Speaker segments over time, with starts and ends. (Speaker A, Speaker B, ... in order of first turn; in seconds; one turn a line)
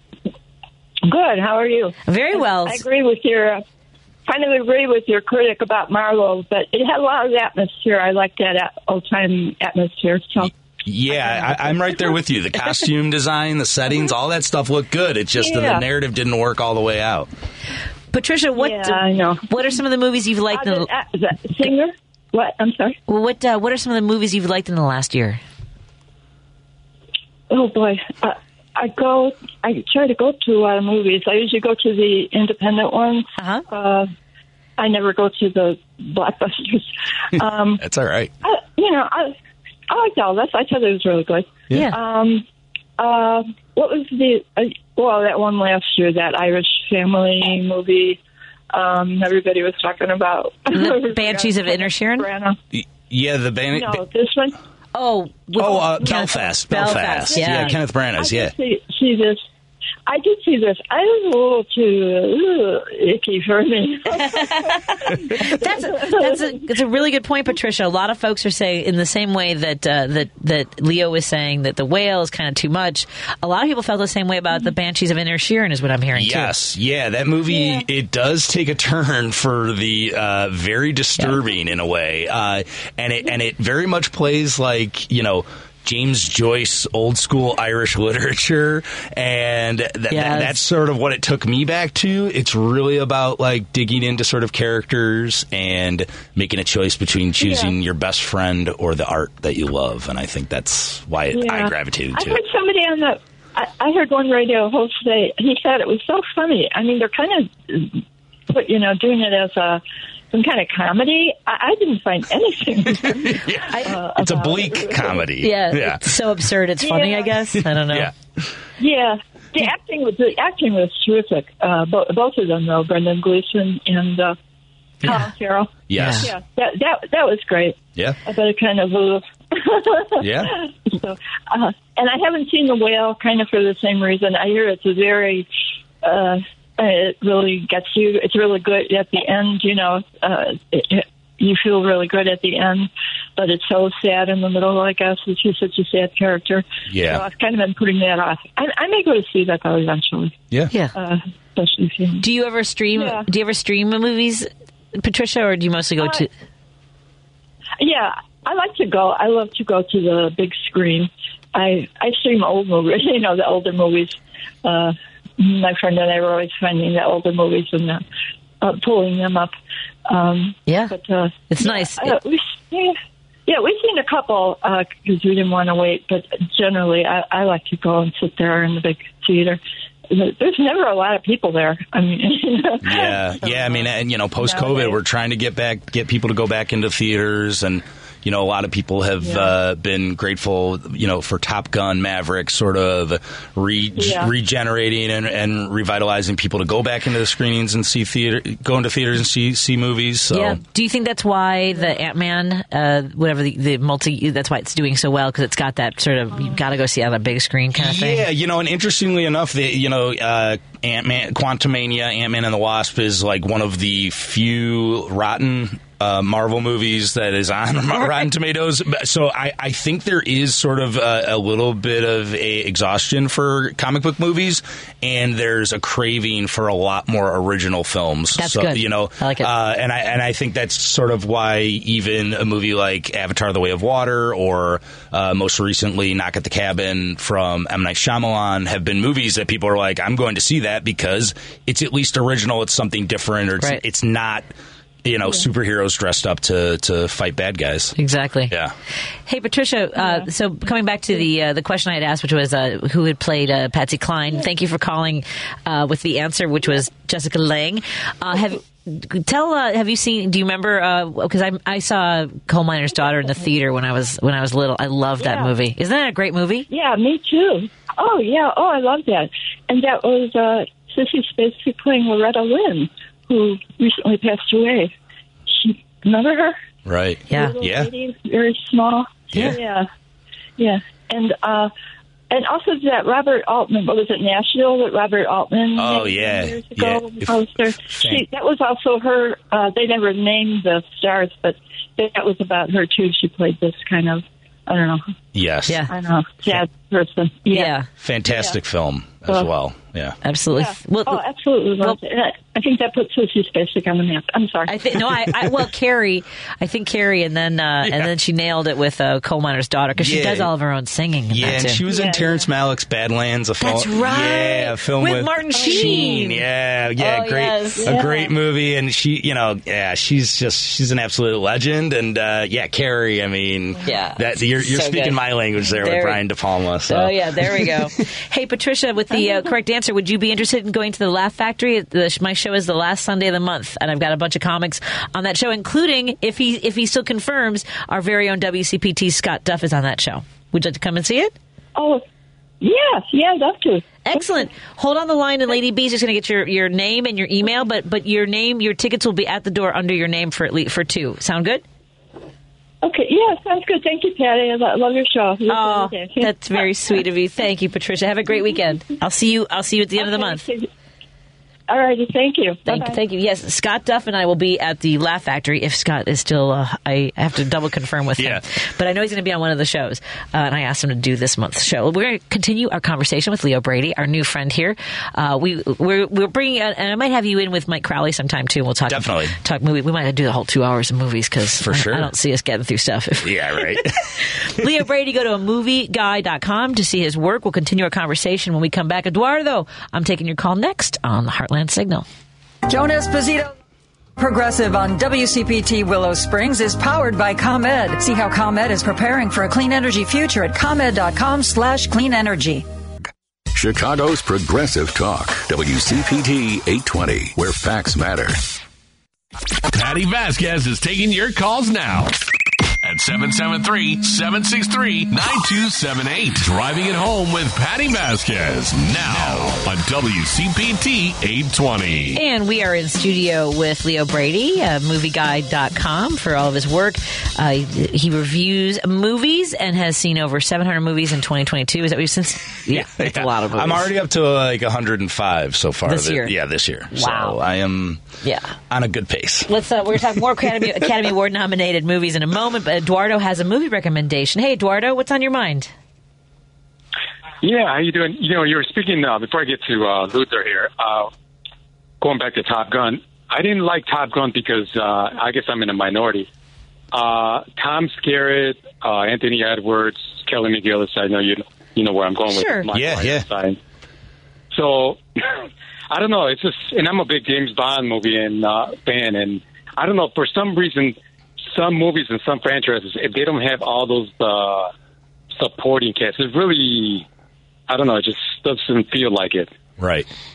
Speaker A: 1.1-3.6
Speaker B: 2.0-2.9
Speaker A: 4.3-10.5
Speaker C: 10.8-17.3
Speaker A: 11.1-12.1
Speaker A: 15.3-15.8
Speaker B: 18.1-20.9
Speaker A: 18.6-19.5
Speaker A: 20.5-22.9
Speaker B: 23.1-25.4
Speaker A: 27.5-34.1
Speaker B: 33.4-33.6
Speaker A: 34.8-36.8
Speaker C: 37.4-38.3
Speaker A: 37.4-37.8
Speaker A: 38.4-39.3
Speaker A: 39.9-42.4
Speaker B: 41.7-42.0
Speaker A: 43.0-48.2
Speaker A: 48.7-52.6
Speaker B: 50.7-52.3
Speaker C: 52.7-54.0
Speaker A: 53.7-54.5
Speaker B: 54.9-57.8
Speaker C: 55.6-58.5
Speaker A: 55.8-56.1
Speaker A: 57.1-57.5
Speaker A: 58.2-59.4
Speaker A: 60.1-66.6
Speaker B: 64.1-76.5
Speaker C: 76.1-102.4
Speaker A: 77.5-77.8
Speaker B: 90.1-90.6
Speaker A: 97.4-97.7
Speaker A: 101.3-109.8
Speaker A: 110.3-113.3
Speaker C: 112.8-116.1
Speaker B: 113.7-113.9
Speaker A: 113.8-115.2
Speaker B: 115.4-118.1
Speaker A: 116.8-117.3
Speaker C: 117.9-118.1
Speaker A: 118.8-124.3
Speaker B: 125.0-125.3
Speaker A: 125.1-135.5
Speaker C: 125.9-126.3
Speaker B: 126.0-126.3
Speaker C: 130.2-130.5
Speaker A: 136.0-150.3
Speaker C: 146.9-147.3
Speaker A: 151.0-152.2
Speaker B: 152.2-156.3
Speaker A: 152.9-153.2
Speaker A: 156.0-156.2
Speaker A: 157.8-168.0
Speaker A: 168.6-169.5
Speaker A: 170.1-172.9
Speaker B: 170.7-170.9
Speaker B: 171.5-172.2
Speaker A: 173.5-185.0
Speaker C: 182.8-200.6
Speaker A: 189.2-189.5
Speaker A: 194.0-194.3
Speaker B: 200.3-208.2
Speaker C: 207.7-244.4
Speaker B: 217.9-218.2
Speaker B: 228.3-229.5
Speaker C: 245.0-247.9
Speaker B: 247.9-248.5
Speaker B: 249.3-266.7
Speaker A: 265.2-265.5
Speaker A: 266.7-274.9
Speaker A: 275.5-276.5
Speaker C: 276.9-277.9
Speaker B: 277.3-277.6
Speaker A: 277.3-279.9
Speaker C: 279.3-279.6
Speaker A: 280.6-281.7
Speaker A: 282.3-295.0
Speaker C: 285.7-288.2
Speaker C: 295.3-295.8
Speaker B: 295.7-295.9
Speaker A: 295.9-297.7
Speaker B: 297.5-297.9
Speaker C: 298.0-300.1
Speaker A: 298.3-298.6
Speaker B: 300.2-301.2
Speaker A: 300.6-304.7
Speaker B: 304.7-311.8
Speaker C: 307.8-308.1
Speaker C: 310.0-310.5
Speaker C: 311.3-327.7
Speaker A: 311.9-312.4
Speaker B: 313.6-316.4
Speaker A: 315.6-315.9
Speaker B: 317.0-318.3
Speaker A: 317.8-318.1
Speaker B: 323.8-325.2
Speaker B: 325.8-326.2
Speaker B: 326.9-341.3
Speaker A: 341.8-342.0
Speaker A: 342.6-344.2
Speaker B: 344.0-351.6
Speaker A: 352.8-356.6
Speaker B: 355.5-360.4
Speaker A: 360.0-360.7
Speaker A: 361.7-363.0
Speaker B: 362.6-383.4
Speaker C: 378.9-379.3
Speaker C: 381.6-382.1
Speaker C: 383.2-383.9
Speaker B: 384.5-392.1
Speaker D: 392.7-393.5
Speaker D: 394.2-402.6
Speaker E: 403.5-408.4
Speaker F: 409.7-412.1
Speaker F: 412.8-422.2
Speaker B: 422.1-433.9
Speaker C: 432.7-438.0
Speaker B: 435.9-436.3
Speaker B: 436.9-437.3
Speaker B: 438.2-438.5
Speaker C: 438.7-439.5
Speaker B: 439.5-445.7
Speaker G: 447.4-451.1
Speaker G: 452.0-456.3
Speaker G: 456.9-463.6
Speaker B: 462.3-462.7
Speaker C: 462.7-463.3
Speaker G: 464.5-465.2
Speaker G: 465.9-471.0
Speaker G: 471.5-474.7
Speaker G: 475.4-477.0
Speaker G: 477.7-479.5
Speaker C: 479.8-480.1